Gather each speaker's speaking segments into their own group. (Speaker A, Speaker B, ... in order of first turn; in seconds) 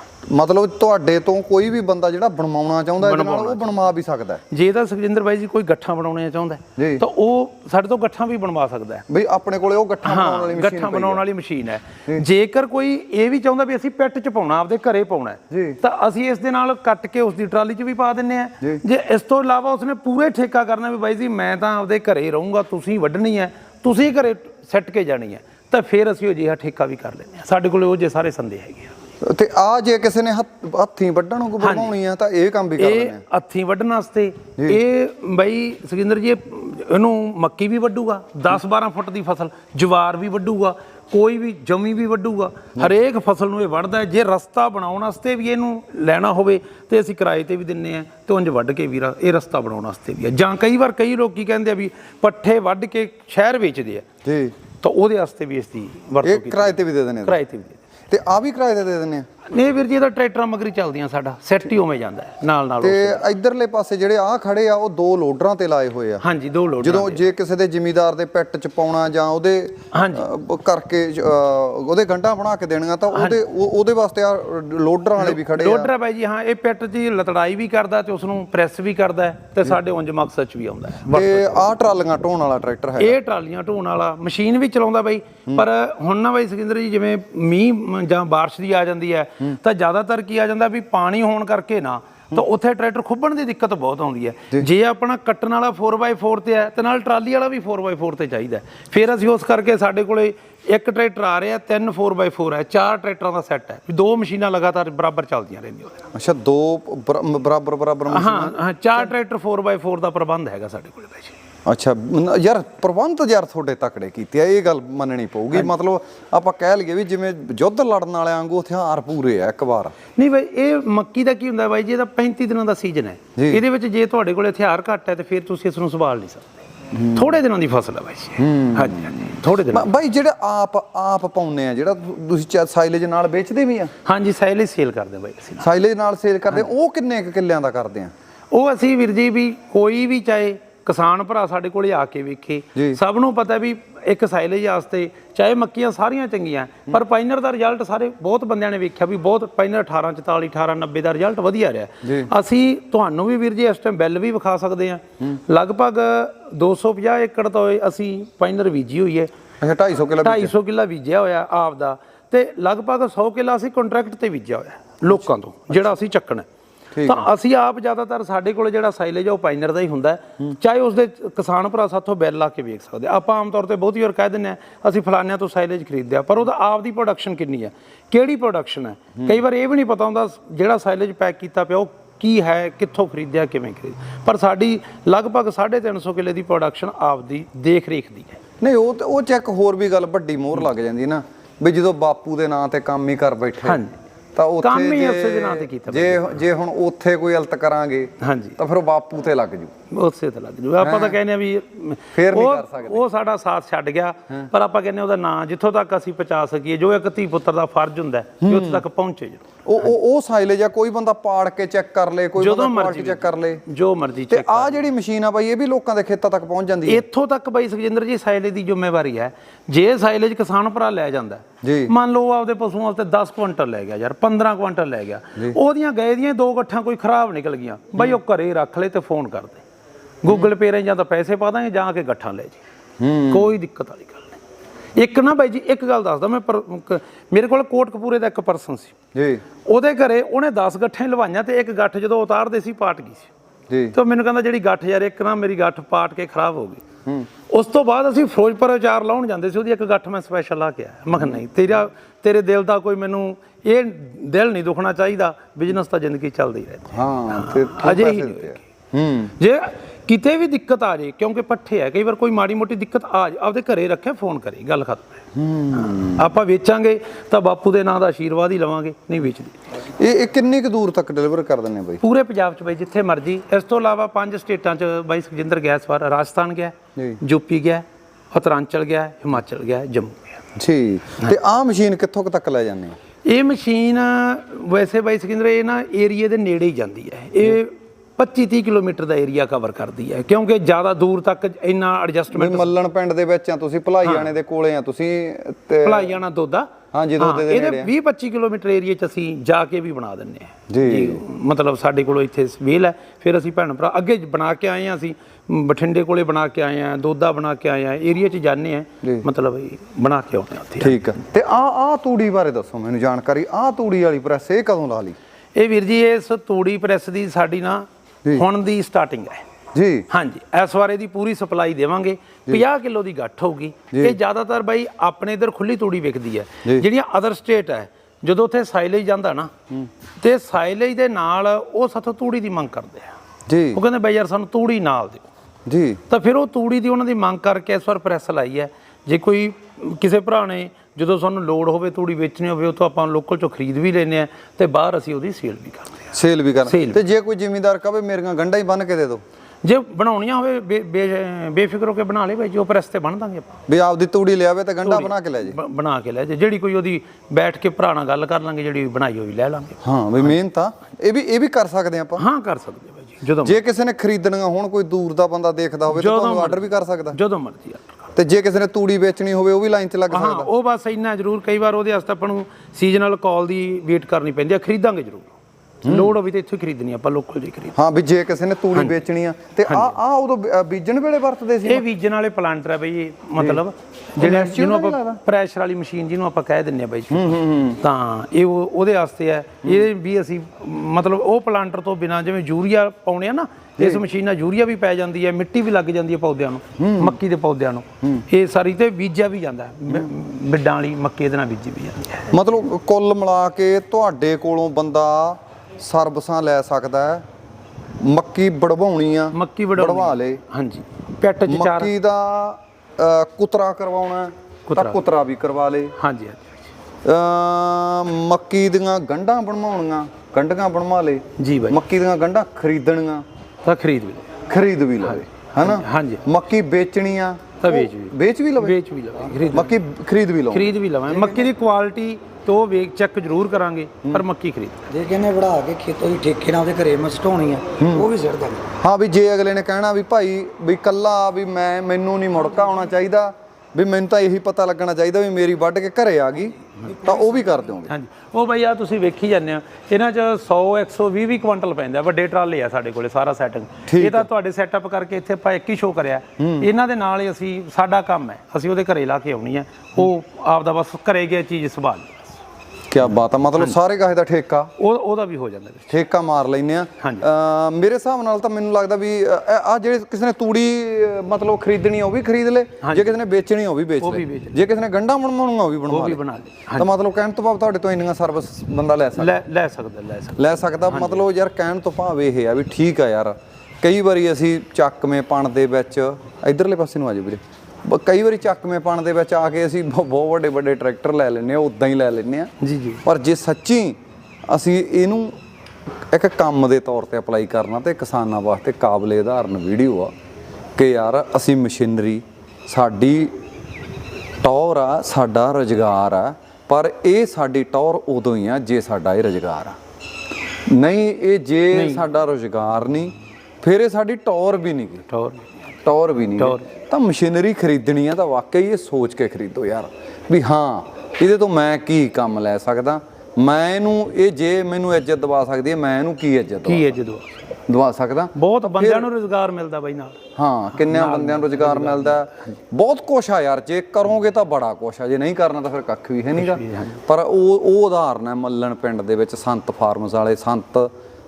Speaker A: 0.3-4.4, 6.8-7.0, 9.1-11.2, 15.5-15.8, 29.2-33.2, 54.2-54.5, 56.2-57.4, 58.1-59.3, 62.8-66.2, 66.8-75.9, 81.1-83.2, 106.1-109.1, 111.7-119.9, 123.4-123.6, 126.9-127.3, 128.4-129.1, 129.7-133.9, 135.6-138.1, 152.0-152.3, 159.6-160.5, 166.9-167.3, 188.6-193.8, 194.4-199.7, 200.8-201.2, 202.2-203.0, 208.4-208.8, 209.7-213.6, 214.3-217.0, 221.6-221.9, 233.0-233.5, 239.2-239.4, 243.7-244.0, 256.9-259.3, 265.3-266.3, 269.8-272.0, 280.6-283.0, 292.3-296.2, 296.9-297.9, 300.7-301.2, 310.8-315.2, 319.7-320.1, 333.5-333.8, 335.7-336.0, 346.1-349.2, 353.7-355.6, 359.8-362.2, 363.4-367.2, 368.1-370.5, 375.9-376.1, 377.8-381.9, 384.2-385.2, 387.1-387.8, 396.8-397.2, 402.3-407.2, 408.0-410.4, 411.5-415.9, 417.1-423.2, 424.5-428.8, 429.5-430.7, 437.8-438.1, 438.8-447.9, 453.9-454.3, 456.4-456.7, 462.9-464.7, 465.9-476.2, 476.8-479.4, 480.4-492.5, 493.1-494.0, 494.5-495.4, 496.1-500.1, 500.8-503.4, 504.4-509.8, 510.7-515.1, 515.9-527.0, 527.7-529.1, 530.4-540.9
Speaker B: 3.0-3.9, 4.5-9.1, 10.0-28.9, 31.6-32.0, 32.8-54.1, 54.8-57.8, 59.5-63.3, 66.2-67.2, 69.9-70.3, 73.1-73.4, 75.2-81.8, 83.0-106.1, 108.1-111.3, 120.2-126.5, 127.1-129.9, 134.1-135.7, 138.5-159.3, 160.2-166.5, 167.0-188.4, 193.6-194.0, 194.6-196.4, 198.2-198.6, 199.9-209.4, 212.4-214.8, 216.9-229.6, 230.2-232.6, 233.3-234.4, 234.9-238.9, 239.7-243.3, 243.9-246.8, 247.5-258.6, 259.4-269.6, 272.0-280.4, 283.3-292.7, 294.0-294.3, 295.8-311.0, 315.6-319.4, 320.1-329.5, 330.2-333.1, 333.7-335.2, 336.1-346.1, 346.6-347.0, 349.6-353.5, 354.8-360.4, 362.2-363.6, 365.9-366.6, 367.1-368.1, 370.1-375.3, 375.8-377.8, 379.7-379.9, 381.6-402.3, 409.3-411.9, 414.7-415.0, 416.0-416.6, 421.4-421.8, 423.6-424.3, 425.0-426.2, 427.6-429.8, 430.5-434.9, 447.9-462.3, 464.8-466.0, 467.0-467.3, 472.8-473.2, 474.0-474.6, 475.9-476.9, 479.2-481.3, 492.6-493.0, 511.7-512.1, 515.1-515.5, 516.4-516.7, 526.6-527.4, 528.4-530.2, 530.7-532.5, 536.3-537.0
Speaker C: 434.9-438.7